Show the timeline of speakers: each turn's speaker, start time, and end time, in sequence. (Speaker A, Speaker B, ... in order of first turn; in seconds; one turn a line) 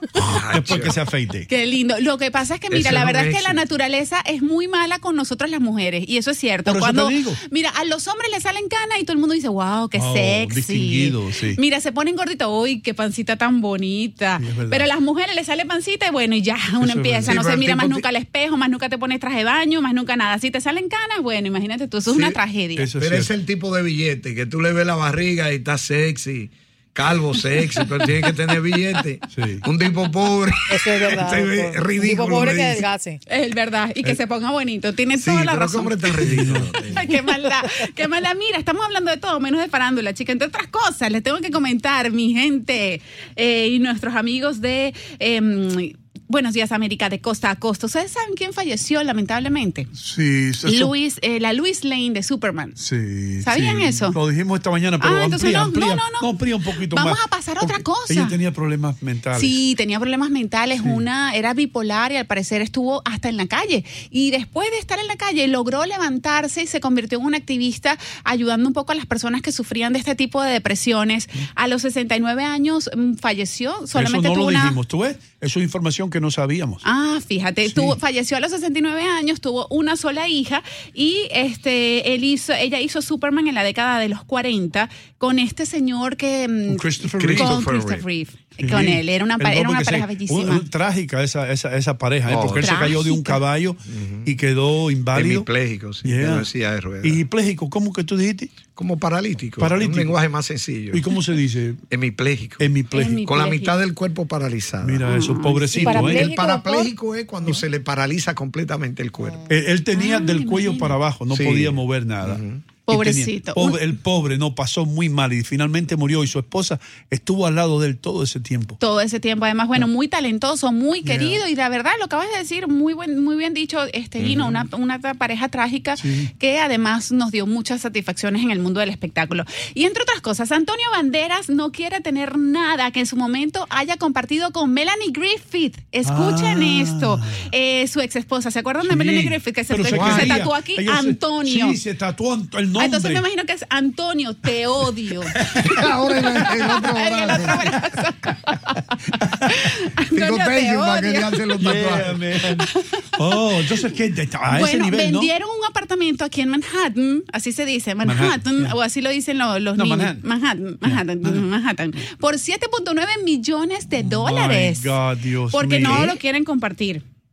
Speaker A: 0.2-0.9
Speaker B: 0.2-1.5
Speaker C: 1.5-22.9
Speaker A: 2.7-3.6
Speaker B: 6.7-7.4
Speaker B: 9.9-11.6
Speaker B: 14.4-14.9
Speaker B: 16.8-17.4
Speaker A: 17.3-18.1
Speaker A: 22.1-22.4
Speaker B: 22.8-23.3
Speaker A: 23.0-32.8
Speaker B: 29.3-29.6
Speaker D: 30.7-33.2
Speaker C: 33.3-49.9
Speaker A: 35.2-37.1
Speaker B: 36.2-36.8
Speaker B: 50.0-51.0
Speaker C: 50.6-52.8
Speaker B: 52.8-59.6
Speaker C: 53.4-54.2
Speaker C: 55.0-58.4
Speaker C: 59.4-74.8
Speaker B: 60.8-61.0
Speaker B: 73.9-76.8
Speaker C: 76.8-90.7
Speaker B: 77.7-78.0
Speaker B: 86.7-87.7
Speaker A: 87.2-88.0
Speaker B: 88.6-95.5
Speaker A: 92.3-92.8
Speaker C: 92.5-93.4
Speaker A: 93.9-94.3
Speaker A: 95.1-97.2
Speaker B: 96.0-96.5
Speaker B: 97.0-98.6
Speaker A: 98.7-101.0
Speaker B: 99.6-100.2
Speaker B: 100.9-101.8
Speaker A: 101.9-105.1
Speaker B: 102.6-103.2
Speaker C: 102.9-103.8
Speaker B: 104.8-106.2
Speaker C: 105.0-105.8
Speaker D: 105.7-106.9
Speaker A: 105.8-109.4
Speaker B: 109.5-118.8
Speaker C: 109.9-111.0
Speaker A: 111.3-112.6
Speaker C: 112.9-113.9
Speaker C: 118.8-141.8
Speaker B: 121.1-121.4
Speaker B: 124.4-124.7
Speaker B: 126.0-126.3
Speaker B: 136.0-137.5
Speaker B: 138.8-143.2
Speaker A: 139.9-140.4
Speaker C: 142.8-145.3
Speaker B: 145.3-145.9
Speaker A: 145.6-147.7
Speaker C: 146.3-148.9
Speaker B: 149.4-149.7
Speaker C: 149.5-151.6
Speaker A: 150.1-152.2
Speaker B: 151.6-155.3
Speaker C: 152.6-153.2
Speaker C: 154.5-167.0
Speaker B: 158.0-158.8
Speaker B: 159.8-160.3
Speaker B: 160.8-161.5
Speaker B: 164.0-166.2